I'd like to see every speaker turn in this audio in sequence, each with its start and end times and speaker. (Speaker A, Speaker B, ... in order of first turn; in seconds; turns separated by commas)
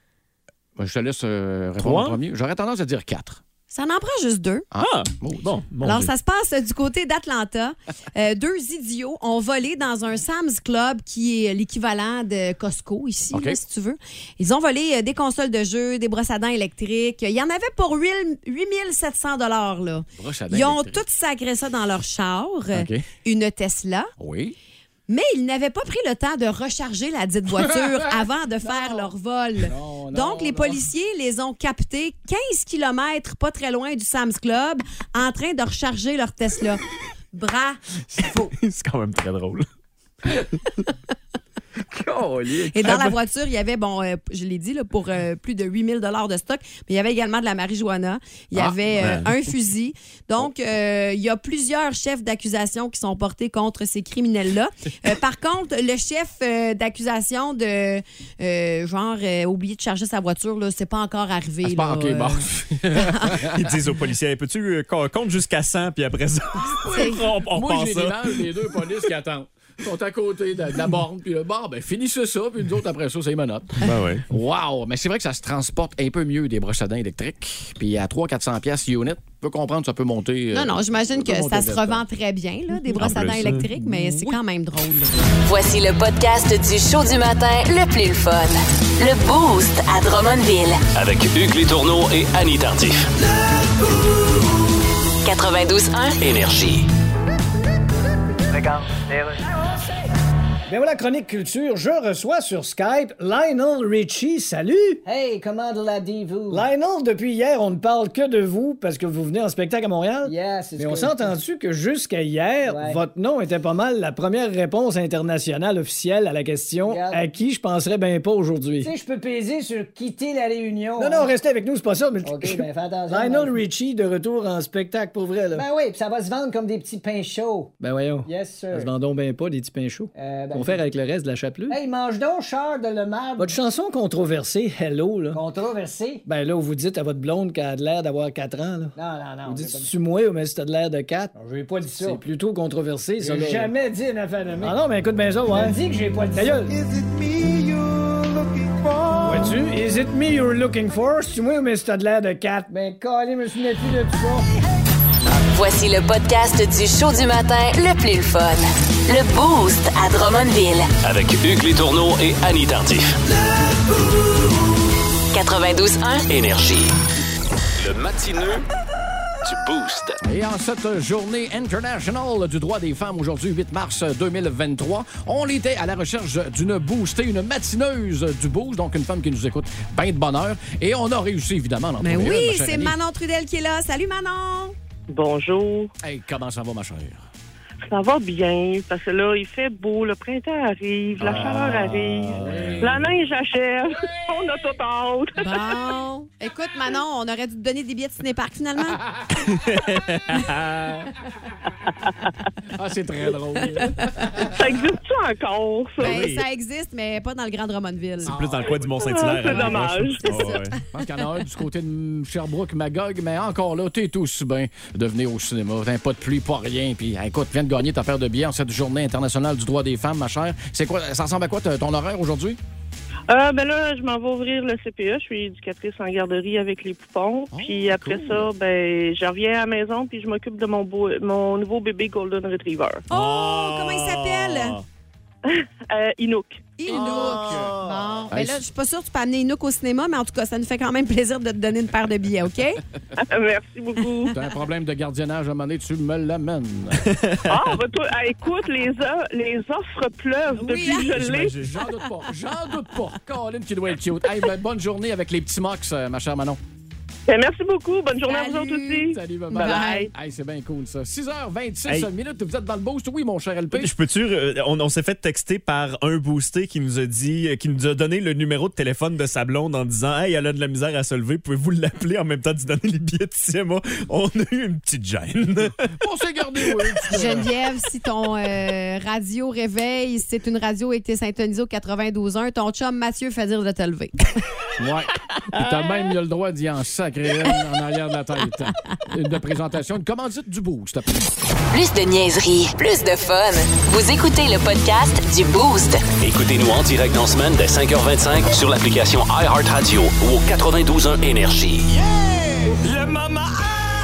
Speaker A: 0.8-3.4, Speaker B: 1.8-2.2, Speaker C: 3.7-4.7, Speaker A: 4.7-5.5, Speaker B: 4.8-6.1, Speaker C: 5.8-24.1, Speaker A: 13.3-13.6, Speaker A: 20.2-21.0, Speaker A: 22.7-23.0, Speaker A: 24.2-24.6, Speaker C: 25.1-38.5, Speaker A: 27.6-30.8, Speaker B: 38.2-39.6, Speaker B: 40.2-40.8, Speaker A: 41.9-43.0, Speaker C: 42.7-63.3, Speaker B: 42.8-43.1, Speaker B: 48.9-49.3, Speaker A: 61.6-63.5, Speaker B: 63.3-68.5, Speaker A: 66.7-82.0, Speaker C: 66.9-67.2, Speaker B: 73.8-74.2, Speaker C: 80.5-85.2, Speaker B: 83.0-83.7, Speaker A: 83.0-83.7, Speaker D: 85.4-90.8, Speaker E: 90.9-93.1, Speaker D: 95.2-96.2, Speaker E: 96.2-96.9, Speaker F: 98.5-100.0, Speaker G: 100.7-105.0, Speaker F: 105.0-106.7, Speaker G: 106.5-119.0, Speaker F: 110.2-111.4, Speaker F: 112.6-113.0, Speaker F: 116.8-117.3, Speaker F: 118.8-121.3, Speaker G: 121.0-125.7, Speaker F: 122.2-123.6, Speaker F: 125.5-128.9, Speaker G: 127.8-131.8, Speaker F: 130.1-130.8, Speaker F: 131.7-133.6, Speaker G: 133.4-135.4, Speaker F: 135.3-136.2, Speaker G: 136.2-146.7, Speaker F: 138.9-139.9, Speaker F: 141.3-142.3, Speaker F: 143.2-147.9, Speaker F: 149.2-149.6, Speaker G: 149.2-152.8, Speaker F: 152.7-154.4, Speaker G: 153.7-154.3, Speaker D: 155.5-160.9, Speaker E: 161.0-163.2, Speaker D: 165.3-166.2, Speaker E: 166.3-166.9, Speaker E: 167.8-168.7, Speaker E: 169.4-170.2, Speaker A: 170.2-182.9, Speaker C: 182.0-184.7, Speaker H: 185.1-185.9, Speaker A: 186.0-187.2, Speaker H: 187.9-195.6, Speaker B: 191.2-193.1, Speaker A: 191.2-193.1, Speaker C: 195.4-199.0, Speaker B: 199.4-201.1, Speaker A: 202.7-204.5, Speaker C: 204.0-204.2, Speaker H: 204.6-206.3, Speaker B: 206.0-206.4, Speaker C: 206.0-208.3, Speaker A: 208.2-209.9, Speaker B: 208.3-210.8, Speaker H: 209.0-210.5, Speaker C: 209.4-210.8, Speaker A: 210.9-222.6, Speaker H: 223.3-233.1, Speaker A: 227.5-228.5, Speaker C: 233.1-234.8, Speaker B: 233.1-234.8, Speaker H: 235.5-236.7, Speaker C: 236.8-242.8, Speaker A: 236.8-237.8, Speaker B: 236.9-238.2, Speaker A: 238.3-238.6, Speaker H: 243.2-244.3, Speaker A: 244.3-247.1, Speaker B: 247.1-247.8, Speaker H: 247.5-251.6, Speaker B: 250.6-251.7, Speaker C: 250.6-251.1, Speaker A: 251.5-256.6, Speaker H: 257.3-260.1, Speaker C: 258.2-260.1, Speaker A: 259.1-263.9, Speaker B: 263.7-275.7, Speaker A: 276.0-277.5, Speaker B: 276.6-277.1, Speaker C: 277.1-284.4, Speaker A: 284.8-291.3, Speaker D: 291.7-296.0, Speaker E: 296.2-301.9